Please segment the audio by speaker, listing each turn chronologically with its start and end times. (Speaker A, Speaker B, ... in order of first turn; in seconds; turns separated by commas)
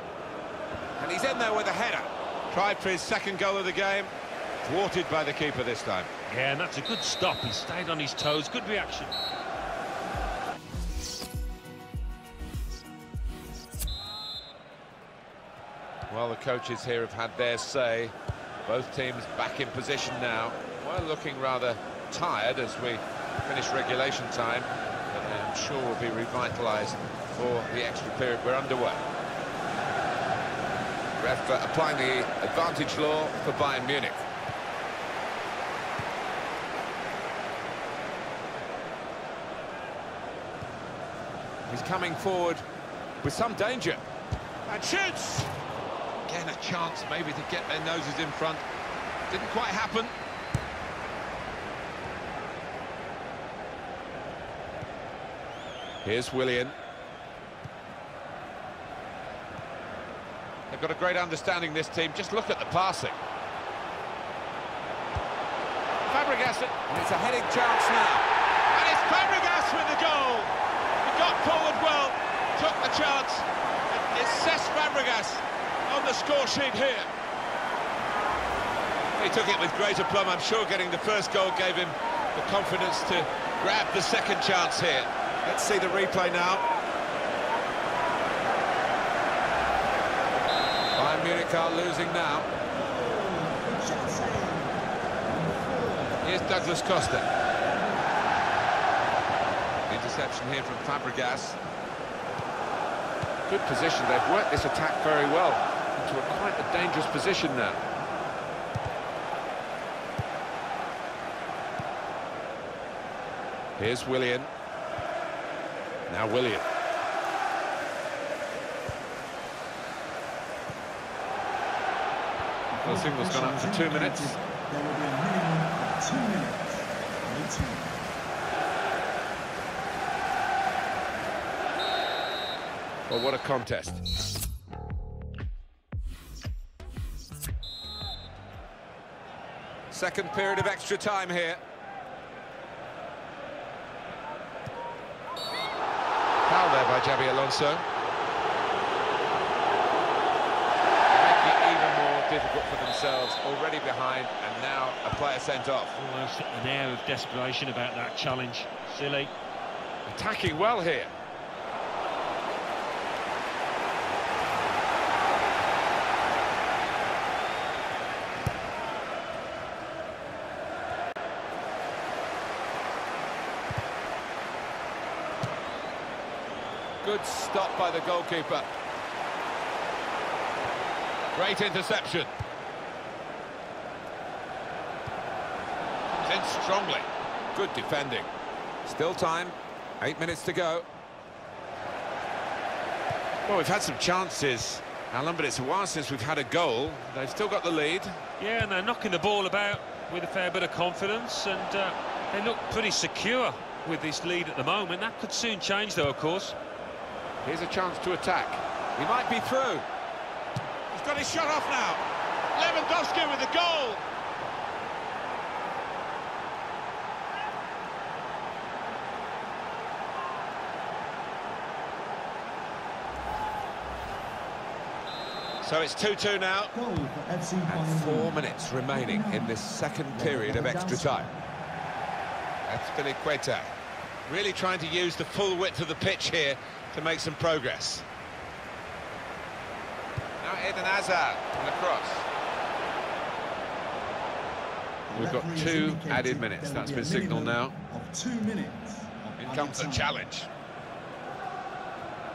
Speaker A: 1.0-6.1, Speaker B: 6.3-9.1, Speaker A: 16.1-18.1, Speaker A: 18.7-29.1, Speaker A: 31.2-34.2, Speaker A: 41.7-42.6, Speaker A: 43.2-44.0, Speaker A: 44.7-45.5, Speaker A: 46.3-48.6, Speaker A: 49.3-50.1, Speaker A: 56.0-56.8, Speaker A: 60.7-63.2, Speaker A: 66.1-70.5, Speaker A: 71.0-77.1, Speaker A: 79.2-86.7, Speaker A: 91.0-92.5, Speaker C: 92.7-96.8, Speaker A: 96.2-97.3, Speaker C: 97.6-98.3, Speaker A: 99.9-101.6, Speaker A: 103.5-107.8, Speaker A: 113.8-114.5, Speaker A: 116.1-116.7, Speaker C: 122.7-128.0, Speaker A: 122.8-124.4, Speaker A: 133.1-134.0, Speaker A: 139.9-141.6, Speaker A: 146.5-147.8, Speaker A: 151.1-156.0, Speaker B: 156.0-159.3, Speaker A: 160.1-161.1, Speaker A: 177.0-178.7, Speaker A: 181.3-182.3, Speaker A: 186.1-188.3, Speaker A: 188.8-190.9, Speaker A: 193.5-198.2, Speaker B: 198.4-206.6, Speaker A: 207.4-209.9, Speaker A: 210.9-212.0, Speaker A: 212.5-214.0, Speaker A: 225.6-226.7, Speaker C: 226.7-229.6, Speaker A: 227.7-231.3, Speaker C: 230.1-231.4, Speaker A: 232.7-233.7, Speaker A: 234.3-238.1, Speaker A: 240.4-242.3, Speaker C: 245.1-250.1, Speaker A: 245.1-247.8, Speaker A: 249.4-250.5